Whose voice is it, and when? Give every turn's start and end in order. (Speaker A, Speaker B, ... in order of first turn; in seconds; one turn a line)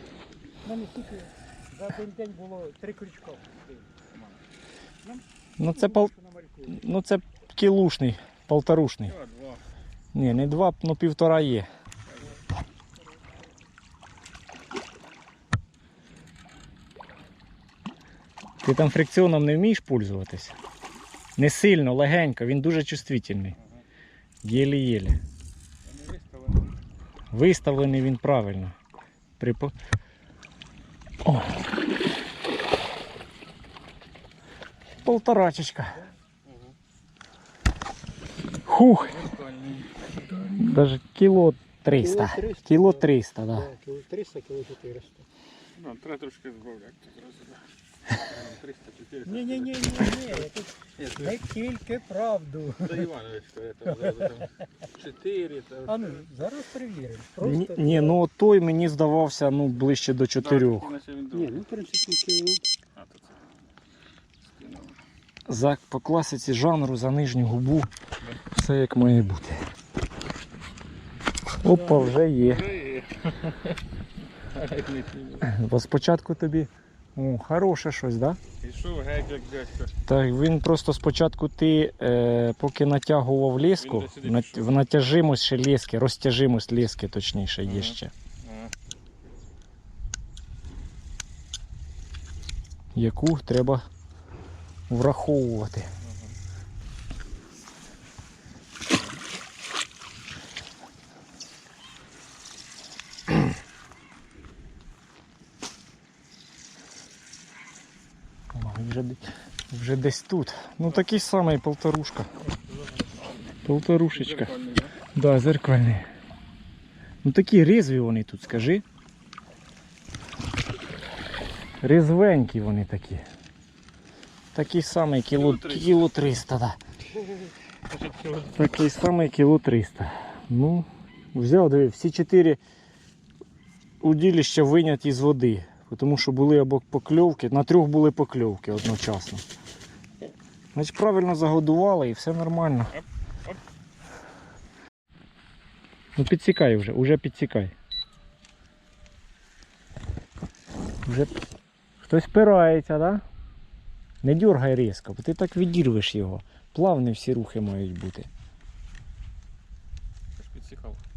Speaker A: 0.6-3.9
Speaker B: 4.1-4.4
Speaker A: 5.0-6.8
Speaker C: 5.6-6.1
Speaker C: 6.7-9.1
Speaker B: 9.1-9.6
Speaker C: 10.1-11.7
Speaker C: 18.6-20.6
Speaker C: 21.4-23.6
Speaker C: 24.4-25.2
Speaker B: 25.8-26.7
Speaker C: 27.3-28.8
Speaker C: 29.4-29.7
Speaker C: 31.2-31.6
Speaker C: 35.0-36.0
Speaker B: 36.4-36.7
Speaker C: 38.6-39.2
Speaker B: 39.0-40.5
Speaker C: 40.5-43.7
Speaker A: 42.0-45.2
Speaker B: 45.8-51.4
Speaker A: 49.2-53.1
Speaker B: 52.8-56.2
Speaker A: 54.1-54.4
Speaker A: 55.8-58.2
Speaker C: 57.4-60.9
Speaker B: 60.4-61.6
Speaker A: 61.3-62.6
Speaker B: 63.0-63.3
Speaker B: 64.4-65.0
Speaker C: 65.5-67.9
Speaker C: 68.5-69.6
Speaker C: 71.6-72.7
Speaker B: 71.7-73.8
Speaker B: 74.5-75.5
Speaker C: 75.4-78.4
Speaker B: 78.6-79.9
Speaker C: 80.0-88.1
Speaker B: 83.8-84.8
Speaker B: 87.7-88.7
Speaker C: 92.9-93.8
Speaker C: 94.9-95.9
Speaker B: 96.0-96.3
Speaker C: 108.5-112.3
Speaker B: 112.7-113.0
Speaker C: 113.6-114.5
Speaker B: 114.1-114.9
Speaker C: 115.1-116.0
Speaker C: 117.2-118.8
Speaker C: 121.8-123.2
Speaker C: 124.5-126.8
Speaker B: 125.3-126.0
Speaker B: 127.9-128.7
Speaker C: 128.5-132.6
Speaker C: 134.0-139.4
Speaker C: 140.7-142.9
Speaker B: 142.9-143.6
Speaker C: 146.2-147.7
Speaker C: 151.0-151.3
Speaker C: 152.0-153.2
Speaker C: 154.2-158.3
Speaker B: 160.4-161.0